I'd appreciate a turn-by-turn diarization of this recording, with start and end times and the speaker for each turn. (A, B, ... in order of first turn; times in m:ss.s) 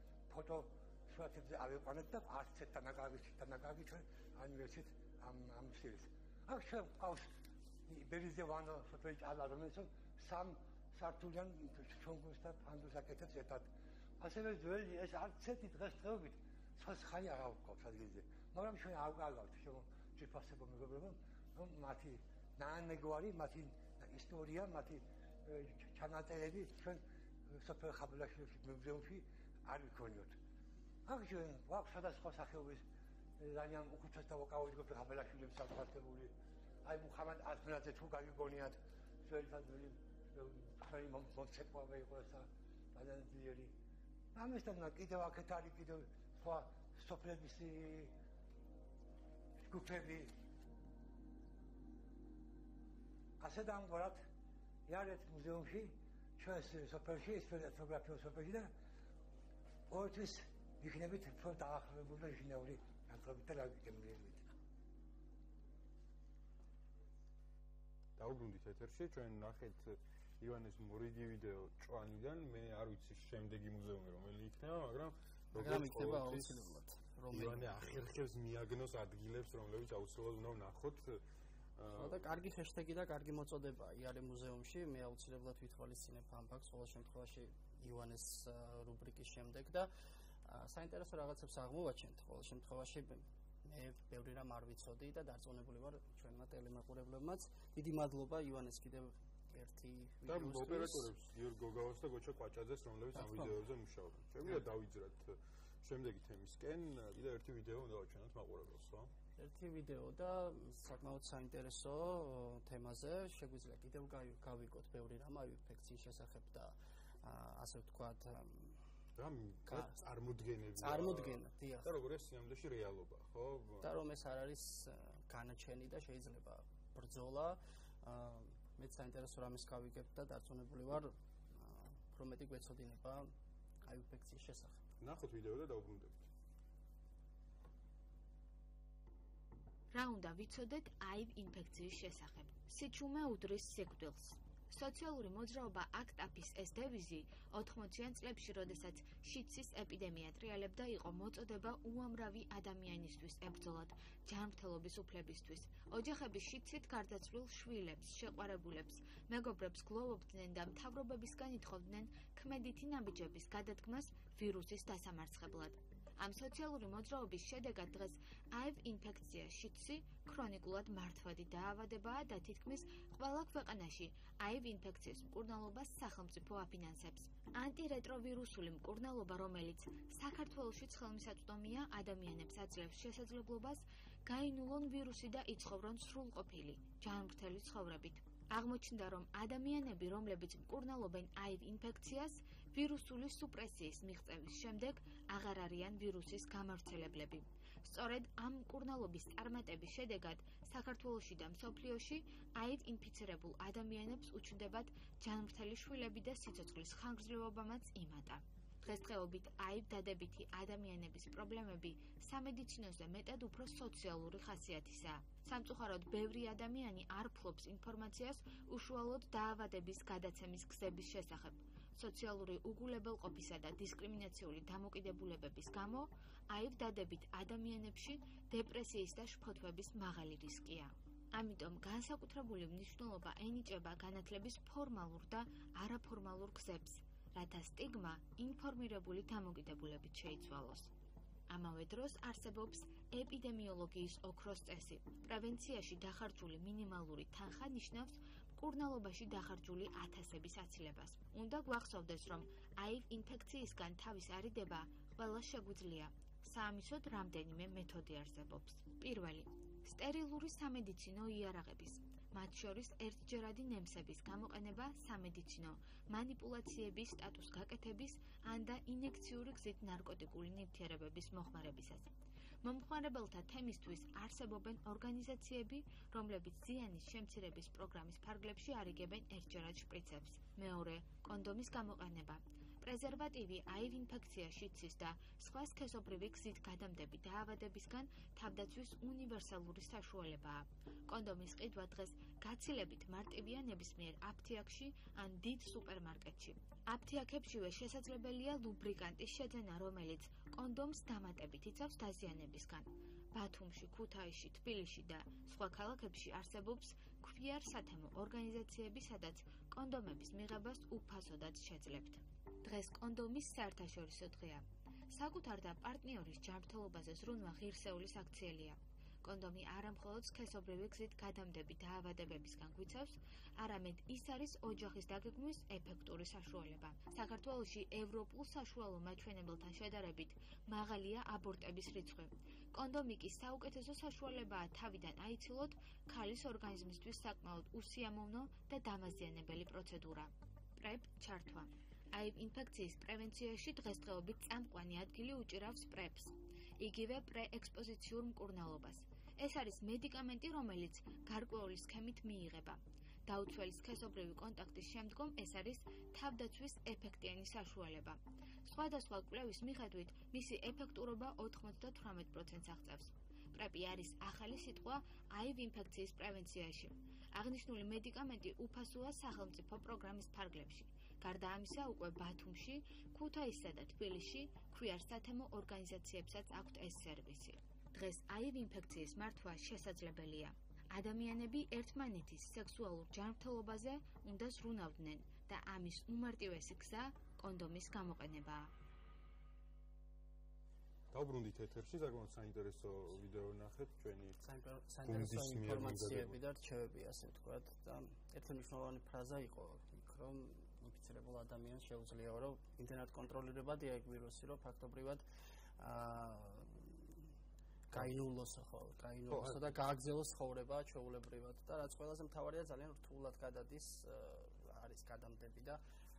0:00.3-0:07.3 A
0:07.9-0:30.4 A
0:31.0-0:32.8 A
0:33.4-0:36.3 A
0:36.8-0:43.7 A
0:44.3-0:48.1 A
0:49.7-0:50.3 A
0:53.4-0:54.2 A
0:54.9-0:58.7 A
0:59.9-1:04.5 A
1:08.2-1:16.6 B
1:15.5-1:17.7 C
1:17.3-1:21.2 B
1:21.8-1:22.2 B
1:21.9-1:29.9 C
1:30.4-1:41.1 C
1:40.3-1:49.1 B
1:43.2-1:43.5 C
1:49.4-1:58.8 C
1:59.2-2:03.9 B
1:59.7-2:00.0 C
2:00.8-2:01.9 C
2:03.8-2:13.3 C
2:13.8-2:14.8 C
2:15.0-2:16.2 B
2:19.9-4:00.9 D
4:01.5-4:32.1 D
4:32.6-6:28.7 D
6:31.1-6:34.4 B
6:34.4-6:45.2 C
6:35.0-6:36.3 B
6:45.8-6:47.3 C
6:47.9-6:55.8 C
6:49.3-6:49.7 B